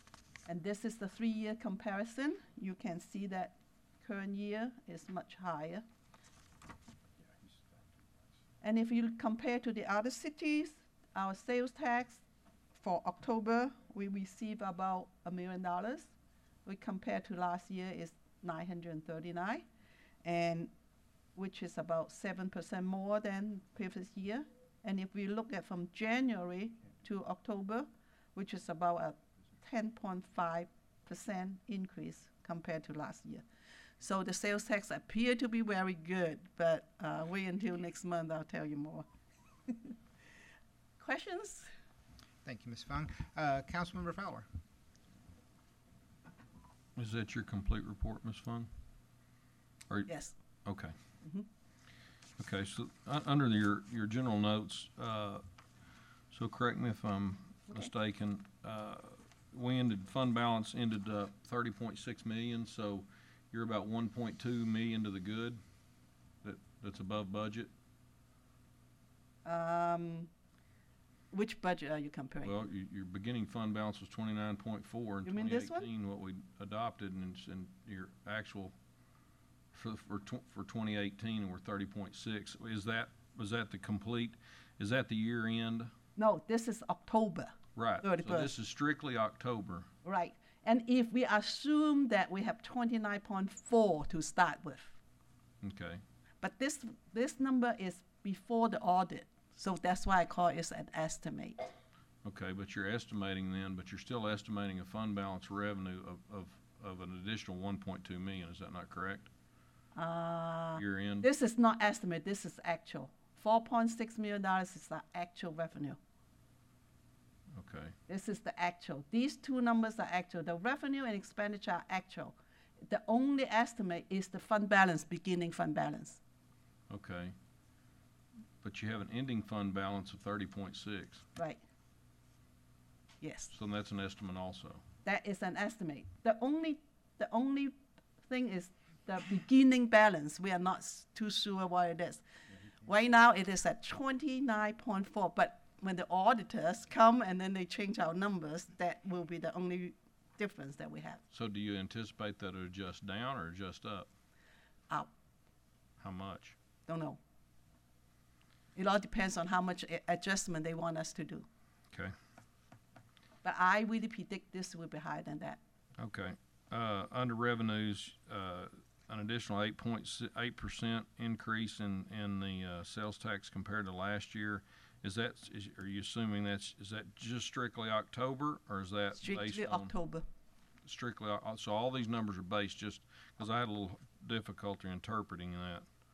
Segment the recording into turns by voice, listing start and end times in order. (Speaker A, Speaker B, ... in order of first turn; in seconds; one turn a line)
Speaker A: 0.5-5.8
Speaker A: 8.6-12.2
Speaker A: 12.8-16.1
Speaker A: 16.7-19.6
Speaker A: 20.2-20.7
Speaker A: 21.4-33.4
Speaker A: 34.0-39.0
Speaker A: 39.7-39.9
Speaker A: 41.0-41.7
Speaker B: 42.4-44.5
Speaker C: 47.0-48.7
Speaker A: 50.1-50.4
Speaker C: 50.6-50.9
Speaker C: 52.4-55.4
Speaker C: 56.3-65.6
Speaker C: 66.4-67.7
Speaker A: 69.5-70.3
Speaker A: 71.3-72.5
Speaker C: 72.4-78.7
Speaker A: 75.3-75.9
Speaker C: 79.7-85.9
Speaker A: 86.2-88.5
Speaker C: 87.8-89.9
Speaker A: 90.0-95.0
Speaker C: 95.6-96.0
Speaker A: 96.4-101.7
Speaker C: 102.2-109.3
Speaker A: 110.0-116.0
Speaker C: 110.8-111.3
Speaker C: 117.6-117.9
Speaker A: 118.1-126.2
Speaker C: 126.9-127.3
Speaker C: 128.6-131.3
Speaker A: 131.4-131.6
Speaker A: 133.2-133.5
Speaker C: 133.5-134.8
Speaker A: 135.1-142.2
Speaker A: 142.8-151.2
Speaker C: 151.3-154.1
Speaker C: 156.0-156.6
Speaker A: 156.9-157.2
Speaker A: 158.8-161.5
Speaker A: 163.4-165.6
Speaker C: 166.0-179.9
Speaker A: 179.2-180.2
Speaker C: 180.9-185.8